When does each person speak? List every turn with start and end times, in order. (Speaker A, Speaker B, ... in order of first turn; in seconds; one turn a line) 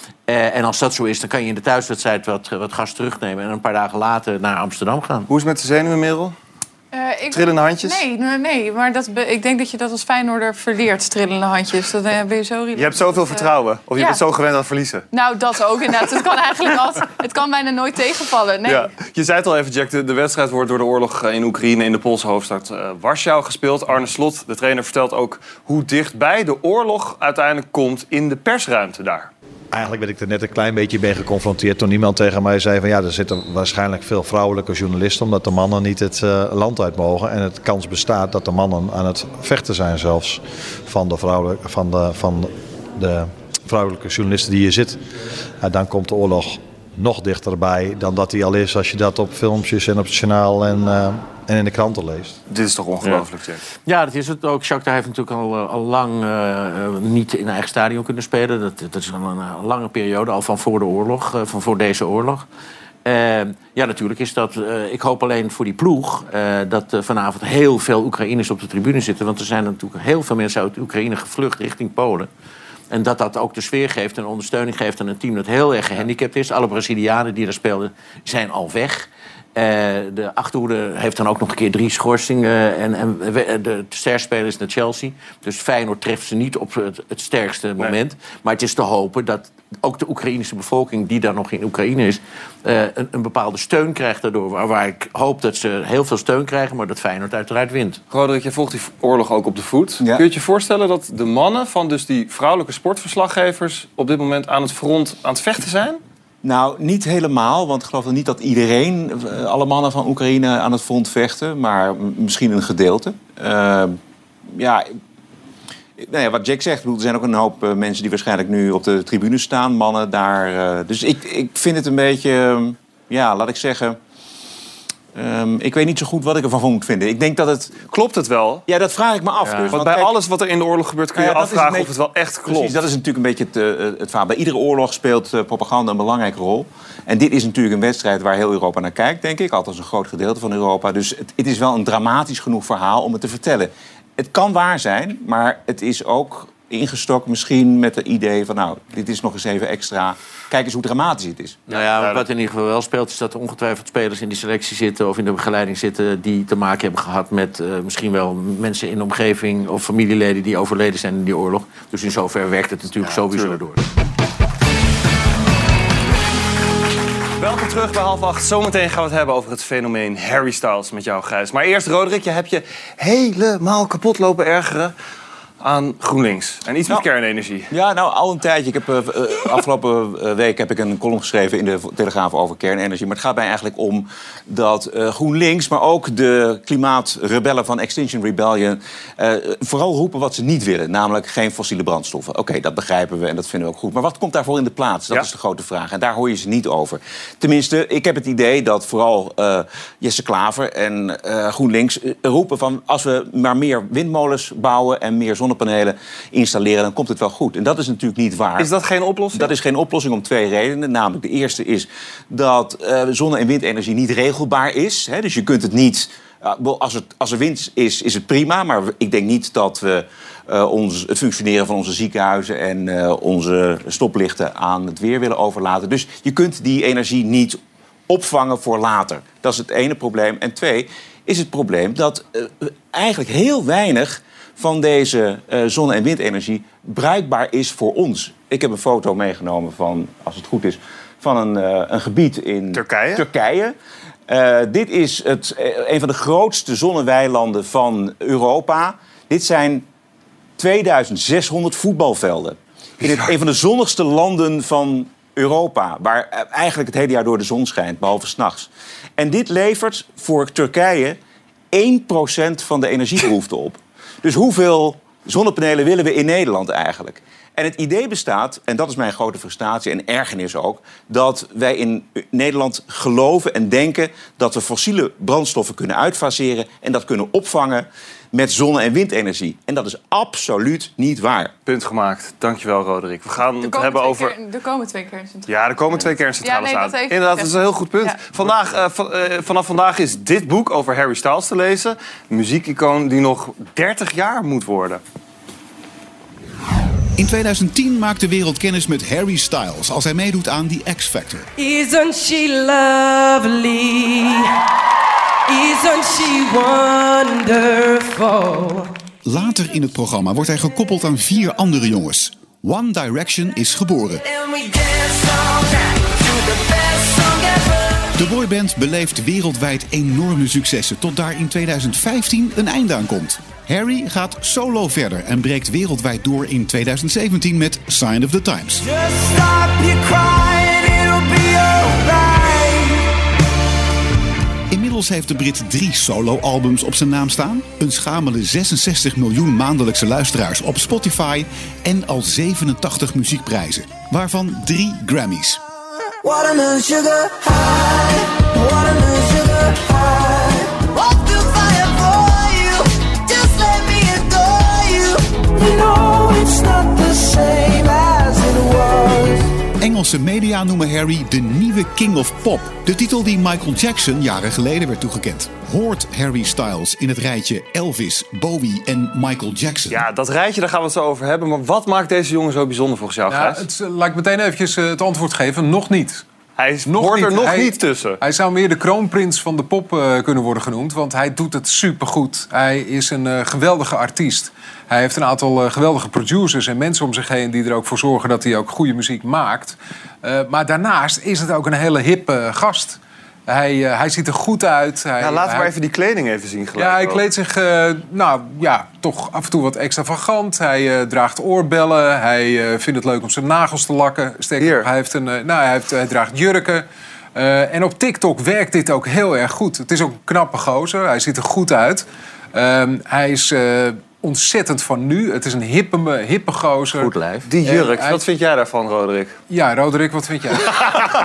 Speaker A: 0.3-5.3
Speaker B: 5.3-6.3
Speaker C: 6.9-14.2
Speaker B: 7.3-8.0
Speaker B: 12.8-15.0
Speaker C: 15.1-18.9
Speaker B: 18.7-29.3
Speaker D: 29.7-45.0
Speaker D: 45.6-52.4
Speaker B: 52.5-53.6
Speaker A: 53.9-62.5
Speaker A: 63.1-72.3
Speaker A: 72.9-98.0
Speaker B: 98.1-106.0
Speaker E: 106.4-114.0
Speaker E: 114.6-114.9
Speaker E: 116.0-124.0
Speaker E: 125.2-127.9
Speaker B: 127.9-128.7
Speaker E: 128.7-130.1
Speaker A: 129.4-129.8
Speaker B: 129.7-132.8
Speaker E: 131.2-131.9
Speaker E: 132.5-151.6
Speaker A: 151.7-163.8
Speaker B: 151.7-152.2
Speaker B: 163.0-163.6
Speaker B: 167.4-174.9
Speaker B: 175.6-177.7
Speaker E: 177.7-208.7
Speaker B: 208.6-209.5
Speaker E: 209.3-243.8
Speaker B: 242.7-243.2
Speaker E: 244.3-249.9
Speaker E: 250.6-261.2
Speaker B: 253.0-253.3
Speaker E: 261.7-281.5
Speaker B: 281.7-284.4
Speaker C: 283.6-285.5
Speaker B: 285.5-295.0
Speaker C: 286.4-288.2
Speaker F: 297.2-301.5
Speaker G: 301.6-304.5
Speaker G: 305.5-308.9
Speaker F: 309.2-314.2
Speaker G: 314.3-318.1
Speaker F: 318.2-328.9
Speaker G: 328.8-333.1
Speaker F: 334.7-345.6
Speaker G: 346.2-359.6
Speaker F: 359.8-370.1
Speaker B: 369.9-373.6
Speaker H: 373.3-376.2
Speaker B: 376.6-378.2
Speaker H: 376.9-395.7
Speaker B: 395.2-397.2
Speaker H: 396.8-417.1
Speaker B: 404.6-404.9
Speaker A: 417.0-417.5
Speaker B: 417.5-419.4
Speaker H: 417.6-418.2
Speaker H: 419.5-420.9